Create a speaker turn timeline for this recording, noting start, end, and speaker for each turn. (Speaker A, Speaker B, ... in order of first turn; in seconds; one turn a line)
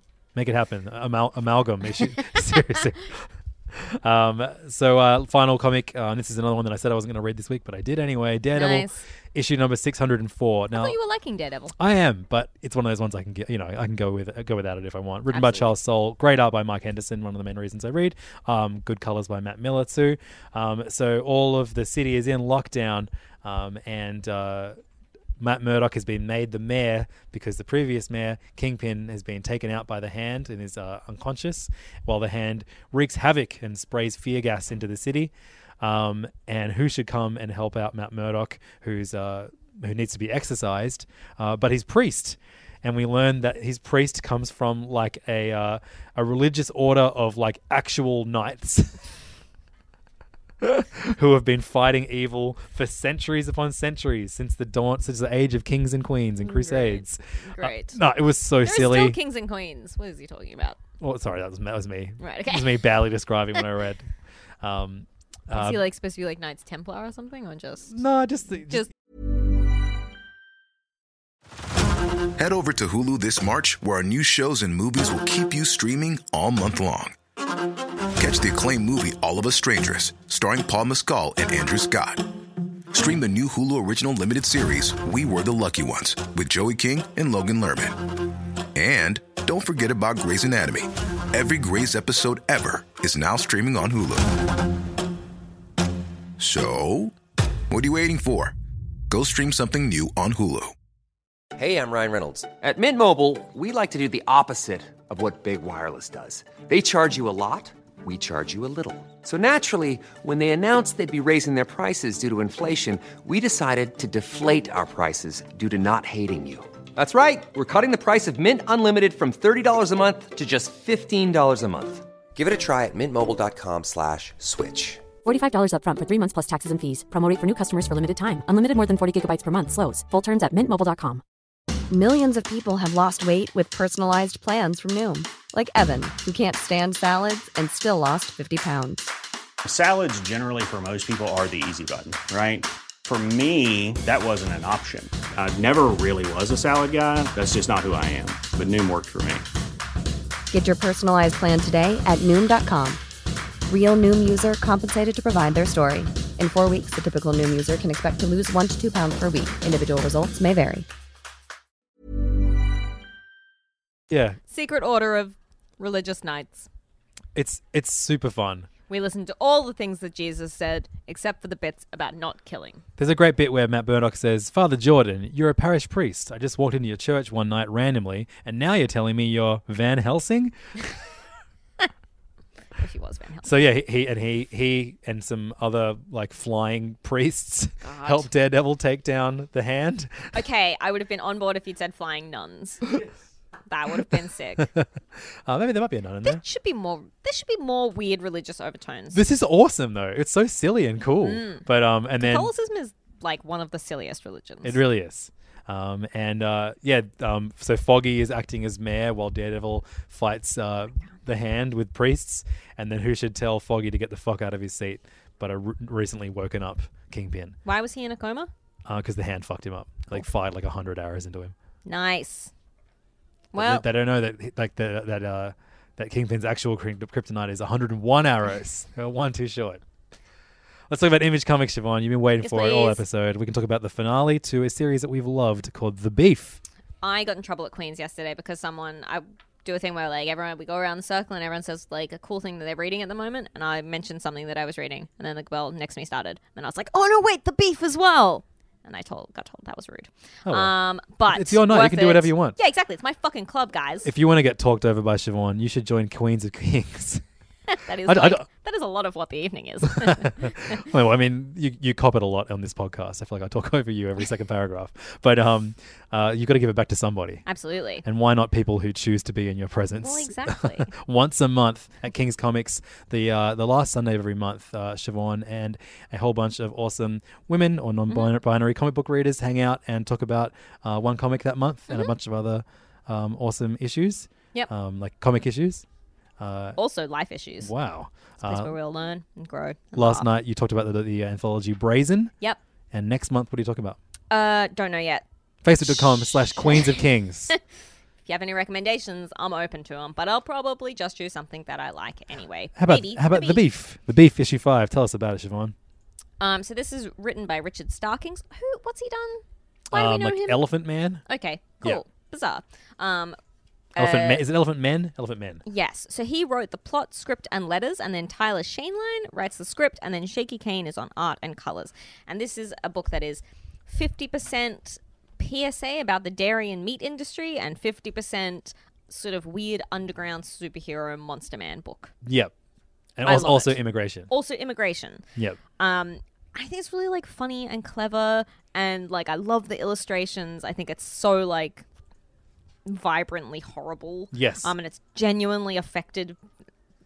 Speaker A: 0.3-11.0
Speaker B: 8.5-9.0
Speaker B: 10.7-11.7
Speaker A: 11.8-24.8
Speaker B: 15.3-15.7
Speaker A: 25.4-49.0
Speaker A: 50.6-59.2
Speaker B: 56.4-58.0
Speaker B: 58.6-60.8
Speaker A: 61.0-64.1
Speaker B: 62.2-63.0
Speaker A: 64.6-65.8
Speaker B: 65.5-67.9
Speaker A: 67.9-68.9
Speaker C: 72.3-77.1
Speaker C: 78.2-82.3
Speaker C: 82.9-88.0
Speaker C: 88.7-94.3
Speaker C: 96.4-97.1
Speaker C: 97.7-98.5
Speaker C: 99.1-100.7
Speaker D: 101.5-125.0
Speaker E: 125.2-131.2
Speaker F: 131.9-139.1
Speaker G: 139.6-149.4
Speaker F: 150.5-153.0
Speaker F: 153.7-160.8
Speaker A: 164.1-164.4
Speaker B: 164.5-166.7
Speaker A: 167.3-168.7
Speaker B: 168.9-172.8
Speaker A: 173.0-180.5
Speaker B: 182.8-183.5
Speaker A: 183.4-190.4
Speaker B: 187.8-188.3
Speaker B: 190.3-192.8
Speaker B: 193.7-194.7
Speaker A: 194.6-196.4
Speaker B: 196.2-199.2
Speaker A: 199.1-202.5
Speaker B: 201.2-201.7
Speaker B: 202.2-204.8
Speaker A: 204.6-217.6
Speaker B: 217.6-218.5
Speaker A: 218.8-221.5
Speaker B: 221.8-222.5
Speaker B: 223.5-223.8
Speaker A: 223.5-229.8
Speaker A: 230.9-236.6
Speaker B: 232.4-233.0
Speaker B: 237.0-254.1
Speaker A: 250.4-250.7
Speaker A: 251.2-252.6
Speaker A: 254.0-257.2
Speaker B: 257.7-260.9
Speaker A: 258.0-258.4
Speaker A: 259.9-267.4
Speaker B: 267.4-268.0
Speaker A: 268.0-285.8
Speaker B: 270.0-270.9
Speaker A: 286.4-286.8
Speaker B: 286.8-287.7
Speaker A: 287.6-288.7
Speaker B: 288.4-290.3
Speaker A: 289.9-292.3
Speaker A: 292.9-294.0
Speaker B: 294.3-295.2
Speaker A: 295.6-297.5
Speaker B: 295.8-297.6
Speaker B: 298.2-303.6
Speaker A: 302.8-305.7
Speaker B: 306.4-310.7
Speaker A: 309.9-311.2
Speaker B: 311.2-313.4
Speaker B: 313.9-314.4
Speaker A: 314.0-315.6
Speaker B: 315.6-332.1
Speaker A: 332.2-332.5
Speaker A: 333.2-334.3
Speaker B: 333.2-335.2
Speaker B: 335.8-341.8
Speaker B: 342.9-346.4
Speaker A: 344.3-344.7